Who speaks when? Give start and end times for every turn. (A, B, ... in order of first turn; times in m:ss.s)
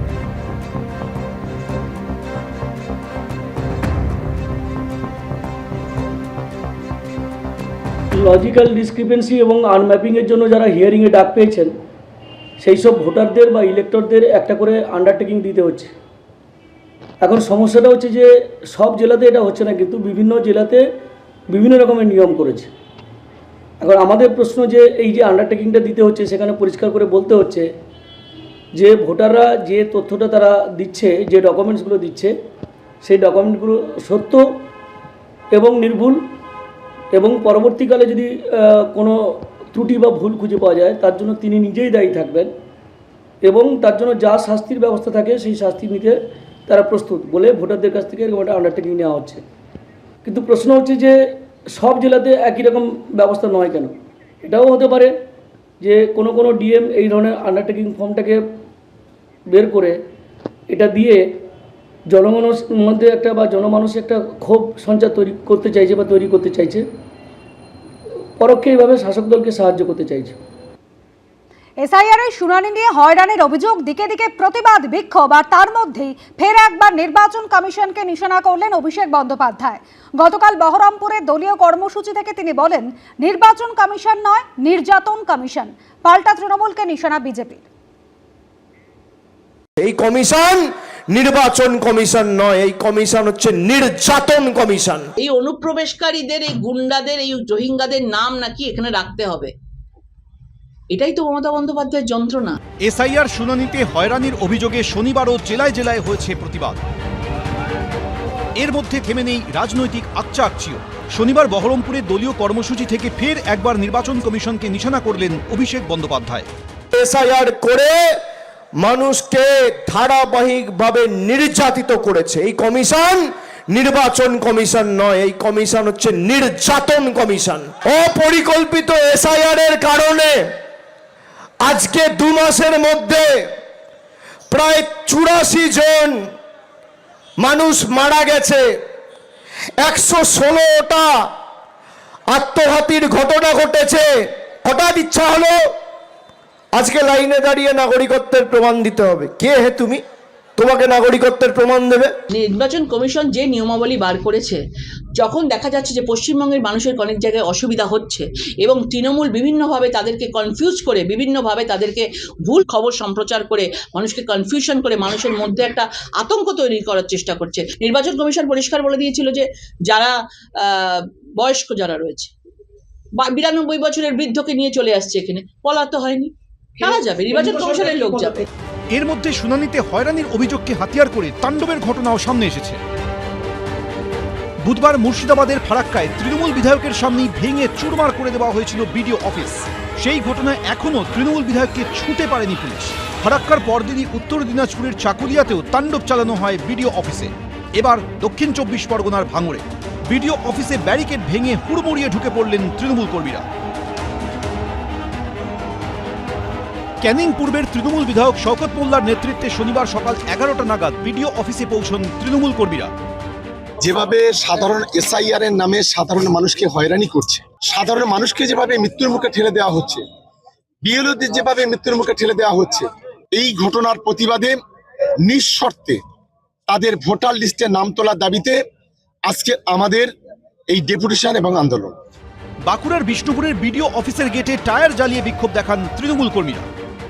0:08.1-0:11.7 A
0:12.6-0:15.9 A
0:17.2-0:20.8 A
0:21.5-0:22.7 A
0:23.8-0:27.7 A
0:28.8-0:32.3 A
0:33.0-0:34.4 A
0:35.5-0:36.2 A
0:37.1-0:42.5 A
0:43.4-0:46.2 A
0:46.7-0:49.4 A
0:50.2-0:51.2 A
0:51.8-0:53.9 A
0:54.4-0:55.1 A
0:55.8-0:58.4 A
0:59.5-1:00.0 A
1:00.7-1:01.2 A
1:02.1-1:06.9 A
1:08.4-1:10.4 A
1:11.8-1:27.6 B
1:29.8-1:35.1 C
1:35.2-1:39.5 D
1:40.9-1:42.6 D
1:42.8-1:46.8 E
1:48.6-1:56.5 E
1:56.9-1:57.9 C
1:58.8-2:10.4 C
2:11.6-2:13.3 C
2:14.5-2:16.2 C
2:17.4-2:18.6 C
2:19.8-2:21.1 C
2:22.3-2:24.1 C
2:24.6-2:25.6 C
2:26.8-2:30.0 C
2:30.6-2:32.1 C
2:32.3-2:34.6 D
2:35.2-2:52.3 D
2:53.2-2:58.5 D
2:58.9-3:02.8 E
3:04.6-3:23.5 E
3:27.0-3:32.9 E
3:33.8-3:40.0 F
3:40.8-3:44.6 F
3:45.3-3:46.0 F
3:46.7-3:48.6 F
3:49.3-3:50.1 F
3:50.7-3:52.0 F
3:52.7-3:56.7 E